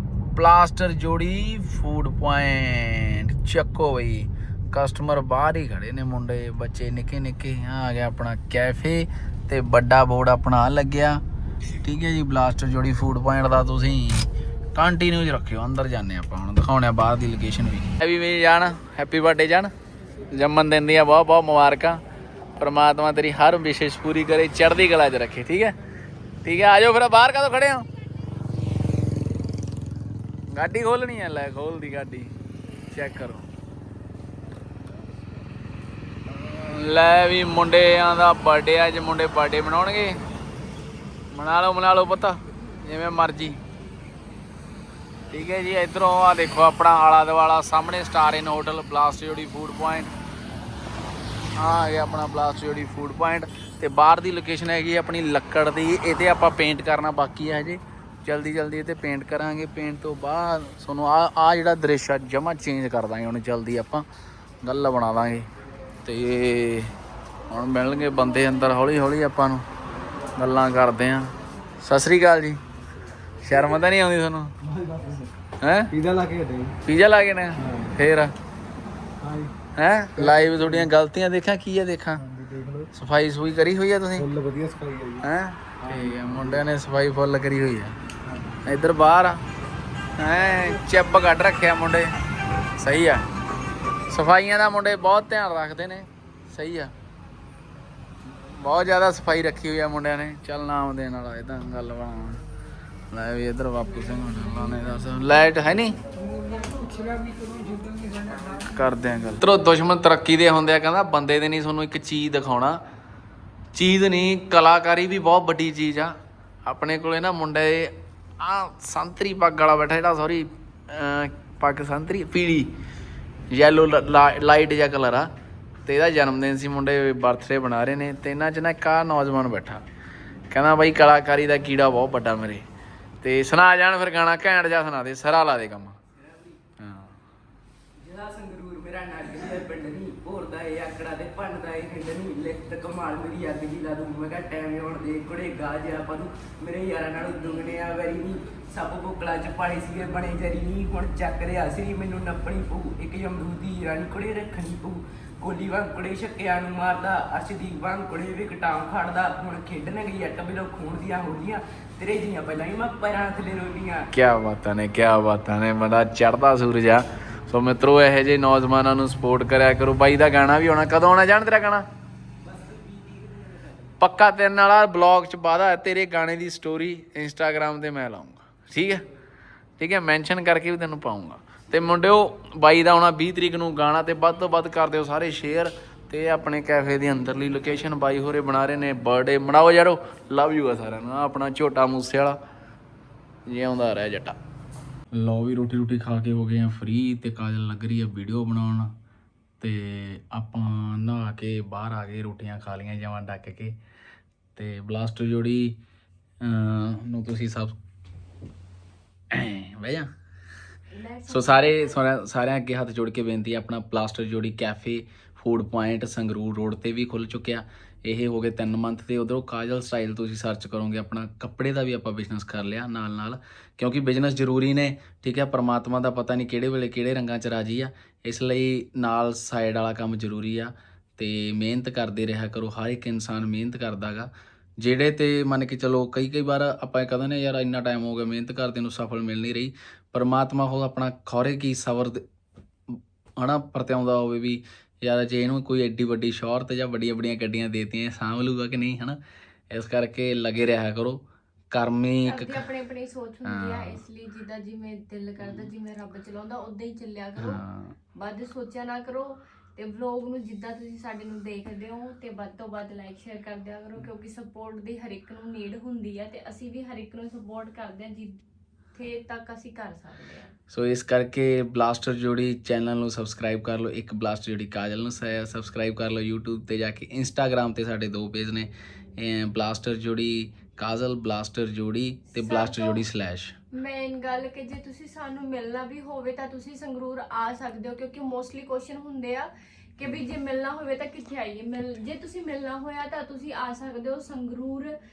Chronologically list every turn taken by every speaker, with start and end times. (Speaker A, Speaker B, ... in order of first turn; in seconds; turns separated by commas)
Speaker A: 0.3-11.2, Speaker A: 11.8-19.7, Speaker A: 20.3-22.0, Speaker A: 22.6-25.8, Speaker A: 26.4-27.9, Speaker A: 30.5-32.3, Speaker A: 32.9-33.5, Speaker A: 36.3-40.2, Speaker A: 41.3-43.6, Speaker A: 45.3-50.1, Speaker A: 51.5-64.0, Speaker A: 64.6-65.5, Speaker A: 66.0-66.9, Speaker A: 67.5-69.6, Speaker A: 70.4-72.6, Speaker A: 73.4-74.5, Speaker B: 74.6-75.3, Speaker A: 75.6-75.9, Speaker B: 75.9-76.8, Speaker A: 76.8-78.3, Speaker B: 77.6-77.9, Speaker B: 79.2-79.5, Speaker A: 79.8-82.2, Speaker B: 80.2-80.9, Speaker B: 82.2-82.9, Speaker A: 82.9-84.3, Speaker B: 84.2-85.3, Speaker A: 85.2-88.0, Speaker B: 85.8-86.7, Speaker B: 88.2-88.6, Speaker A: 88.6-89.4, Speaker A: 90.2-92.1, Speaker A: 92.8-93.3, Speaker A: 94.1-96.9, Speaker A: 98.4-102.4, Speaker A: 103.1-106.0, Speaker B: 106.1-108.7, Speaker A: 108.5-112.8, Speaker A: 113.7-122.7, Speaker A: 123.5-125.3, Speaker A: 125.8-129.8, Speaker A: 130.5-132.6, Speaker A: 133.2-136.0, Speaker C: 136.2-136.5, Speaker A: 136.8-137.2, Speaker C: 138.0-164.1, Speaker A: 164.1-171.8, Speaker C: 172.4-173.9, Speaker A: 174.0-179.0, Speaker A: 179.8-192.4, Speaker A: 193.5-194.4, Speaker A: 195.1-198.9, Speaker A: 199.6-203.8, Speaker A: 204.6-205.8, Speaker A: 206.4-207.8, Speaker A: 209.3-210.1, Speaker D: 210.9-212.0, Speaker A: 211.3-234.3, Speaker A: 234.8-242.2, Speaker A: 242.9-249.2, Speaker A: 249.7-252.6, Speaker D: 252.2-257.6, Speaker A: 253.4-254.0, Speaker A: 255.4-255.7, Speaker A: 257.4-257.9, Speaker D: 258.1-268.4, Speaker D: 268.9-270.5, Speaker A: 270.7-283.5, Speaker D: 282.3-283.0, Speaker D: 283.7-295.0